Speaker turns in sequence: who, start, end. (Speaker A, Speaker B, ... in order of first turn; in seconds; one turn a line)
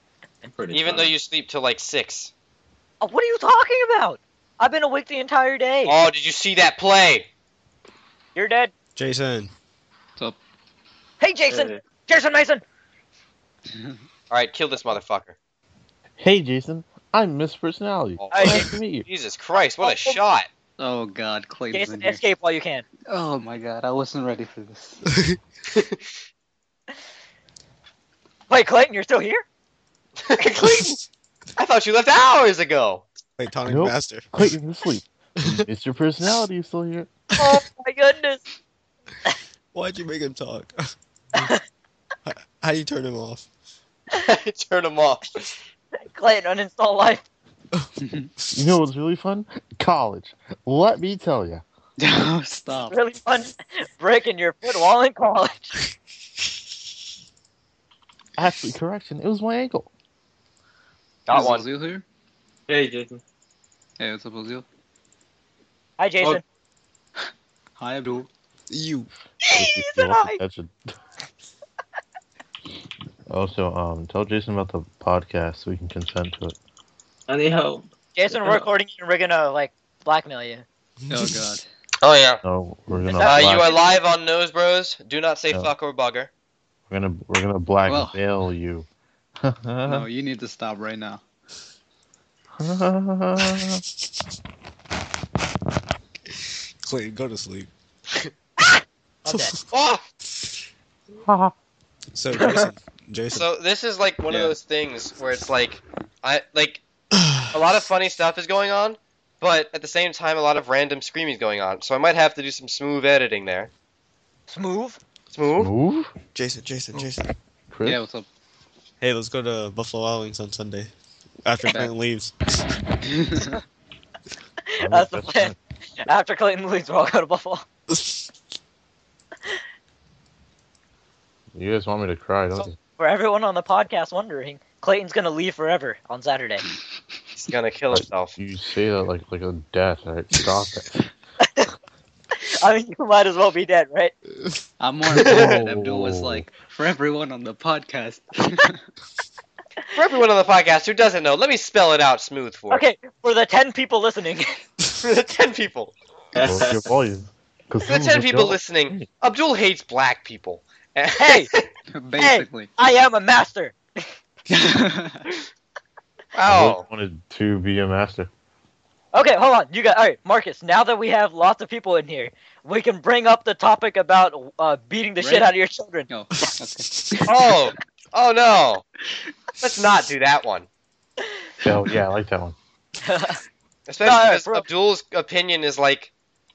Speaker A: 0.4-1.1
Speaker B: 0.7-2.3
Speaker C: 3.0-6.0
Speaker B: 5.8-7.3
Speaker C: 8.3-8.7
Speaker D: 8.9-9.5
Speaker C: 11.2-12.6
Speaker A: 11.5-11.8
Speaker B: 14.3-15.3
Speaker E: 16.2-19.1
Speaker B: 18.2-20.5
Speaker C: 18.3-18.7
Speaker C: 19.8-20.2
Speaker F: 20.8-22.2
Speaker C: 21.7-22.8
Speaker F: 23.1-25.0
Speaker D: 25.1-25.4
Speaker C: 28.5-29.4
Speaker B: 30.2-31.0
Speaker B: 31.6-33.1
Speaker D: 33.4-34.3
Speaker E: 33.6-37.1
Speaker C: 37.4-38.4
Speaker D: 39.7-40.8
Speaker D: 42.2-43.5
Speaker B: 44.1-45.4
Speaker C: 46.1-47.2
Speaker F: 48.0-48.3
Speaker E: 48.5-51.6
Speaker F: 52.0-53.0
Speaker C: 52.9-55.7
Speaker E: 58.4-59.9
Speaker B: 61.3-61.6
Speaker F: 61.3-62.0
Speaker A: 62.7-63.2
Speaker F: 64.0-64.6
Speaker C: 66.0-66.4
Speaker F: 67.8-68.3
Speaker D: 68.7-69.1
Speaker C: 69.4-70.4
Speaker E: 69.5-70.9
Speaker E: 73.3-76.5
Speaker A: 77.3-78.7
Speaker C: 78.1-80.6
Speaker D: 81.1-81.4
Speaker F: 81.1-81.7
Speaker B: 82.0-82.4
Speaker E: 82.4-83.7
Speaker C: 83.0-83.9
Speaker B: 83.2-86.3
Speaker E: 86.9-88.9
Speaker F: 87.9-88.2
Speaker E: 89.4-90.1
Speaker F: 89.8-91.2
Speaker E: 92.6-93.8
Speaker D: 96.8-97.7
Speaker C: 99.2-99.5
Speaker D: 99.3-99.7
Speaker B: 99.7-100.0
Speaker E: 101.2-101.5
Speaker D: 102.1-103.5
Speaker C: 102.4-102.7
Speaker B: 103.3-106.8
Speaker D: 107.1-107.6
Speaker B: 107.5-113.7
Speaker C: 114.5-115.0
Speaker B: 115.3-115.7
Speaker E: 115.5-116.1
Speaker D: 116.3-117.3
Speaker E: 117.7-118.0
Speaker F: 117.8-118.3
Speaker D: 119.0-120.9
Speaker D: 121.4-122.3
Speaker F: 121.6-121.9
Speaker F: 123.0-123.5
Speaker C: 124.7-127.6
Speaker E: 124.8-125.6
Speaker D: 127.9-128.3
Speaker E: 131.5-132.8
Speaker C: 133.0-136.6
Speaker B: 137.4-138.3
Speaker E: 137.9-141.0
Speaker C: 141.4-141.7
Speaker C: 142.4-144.1
Speaker F: 144.8-148.8
Speaker B: 145.2-145.5
Speaker E: 145.2-146.4
Speaker B: 149.9-152.8
Speaker C: 152.7-154.6
Speaker B: 155.0-155.9
Speaker A: 156.3-156.9
Speaker E: 156.4-159.1
Speaker B: 157.8-161.7
Speaker C: 161.2-161.5
Speaker F: 161.9-162.7
Speaker C: 162.2-164.1
Speaker F: 164.5-165.3
Speaker B: 166.3-166.8
Speaker E: 166.4-168.3
Speaker C: 169.1-176.1
Speaker F: 175.2-175.5
Speaker F: 176.1-177.3
Speaker B: 177.3-178.8
Speaker B: 179.6-180.7
Speaker E: 181.6-182.6
Speaker C: 183.0-183.4
Speaker B: 183.9-186.1
Speaker C: 184.0-184.7